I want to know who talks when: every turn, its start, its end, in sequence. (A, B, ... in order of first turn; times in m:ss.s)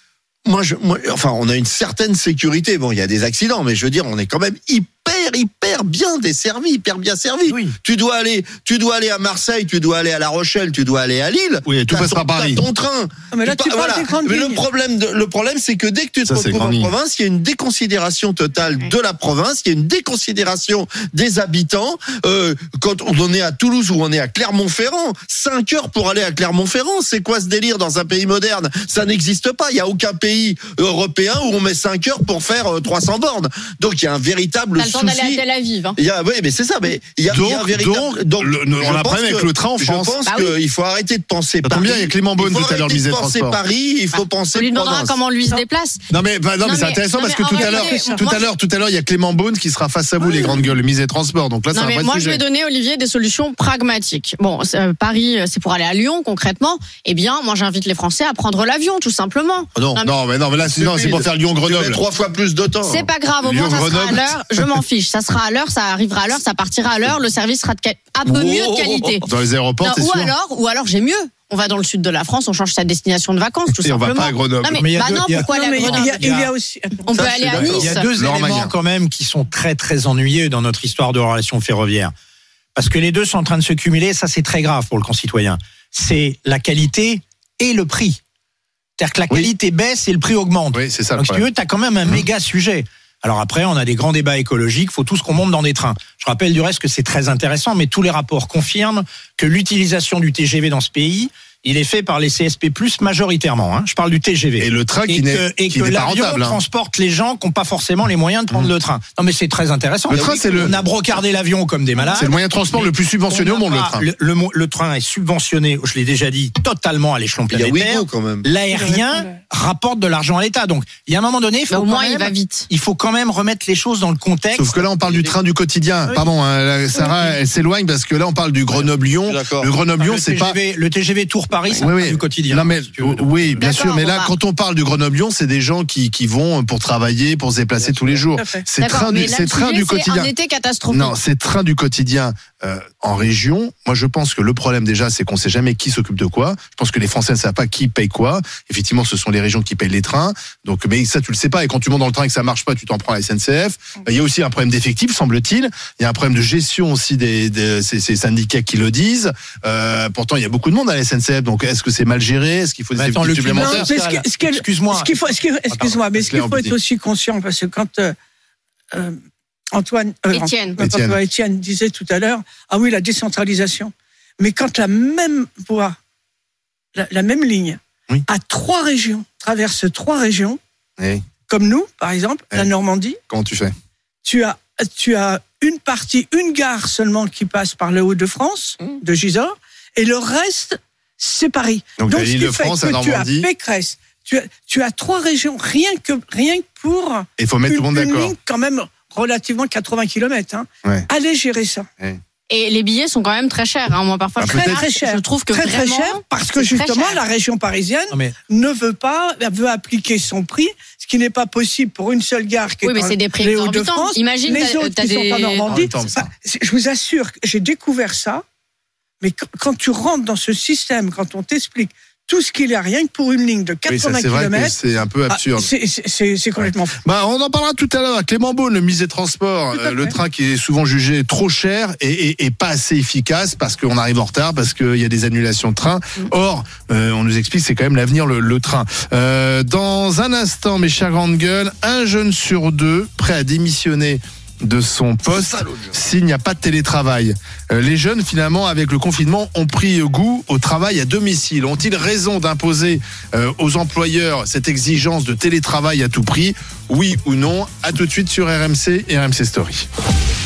0:00.4-0:35.4 A
0:07.5-0:07.7 B
0:11.6-0:12.6 C
0:13.3-0:14.6 D
0:16.3-0:16.9 C
0:34.8-0:36.0 E
0:36.0-0:45.2 A
0:37.3-0:40.2 C
0:40.3-0:40.6 E
0:41.6-0:43.6 C
0:44.1-0:46.0 E
0:46.1-0:52.4 C
0:46.6-0:48.5 E
0:47.5-0:48.2 D
0:50.2-0:50.6 E
0:50.3-0:50.6 D
0:51.7-1:00.1 E
0:59.7-1:00.0 A
1:00.0-1:02.0 C
1:00.6-1:03.1 A
1:02.8-1:09.2 E
1:03.4-1:04.8 C
1:08.2-1:09.2 A
1:09.3-1:10.3 C
1:09.8-1:18.1 E
1:13.7-1:14.8 C
1:14.8-1:16.5 B
1:15.4-1:17.3 D
1:17.1-1:18.0 A
1:17.5-1:22.1 B
1:18.1-1:18.7 C
1:22.8-1:28.2 B
1:29.0-2:04.9 B
1:30.7-1:31.4 C
1:44.6-1:46.6 C
1:50.1-1:50.8 C
1:50.1-1:50.8 A
1:52.1-1:54.1 C
1:57.5-1:58.5 A
1:58.7-1:59.4 D
2:01.7-2:02.7 E
2:04.5-2:10.6 C
2:05.0-2:05.4 A
2:06.9-2:07.3 D
2:09.2-2:09.7 A
2:10.0-2:13.6 B
2:11.8-2:20.3 C
2:13.6-2:14.3 E
2:17.8-2:18.2 A
2:18.4-2:18.7 D
2:18.8-2:21.1 E
2:20.9-2:43.9 C
2:43.0-2:46.3 B
2:43.6-2:48.2 D
2:46.3-2:46.7 C
2:49.7-2:56.0 D
2:50.3-2:50.8 E
2:50.8-2:51.2 C
2:57.0-3:00.6 D
3:01.0-3:01.3 C
3:01.5-3:03.2 D
3:03.3-3:03.7 C
3:04.2-3:21.9 D
3:12.0-3:13.5 C
3:17.4-3:18.3 C
3:22.5-3:27.2 E
3:24.4-3:24.8 C
3:24.5-3:38.4 D
3:32.8-3:36.1 E
3:35.7-3:36.2 C
3:39.2-3:44.8 D
3:43.9-3:45.7 C
3:45.3-3:47.0 D
3:47.0-4:19.8 C
3:49.7-3:50.1 D
4:05.3-4:05.9 A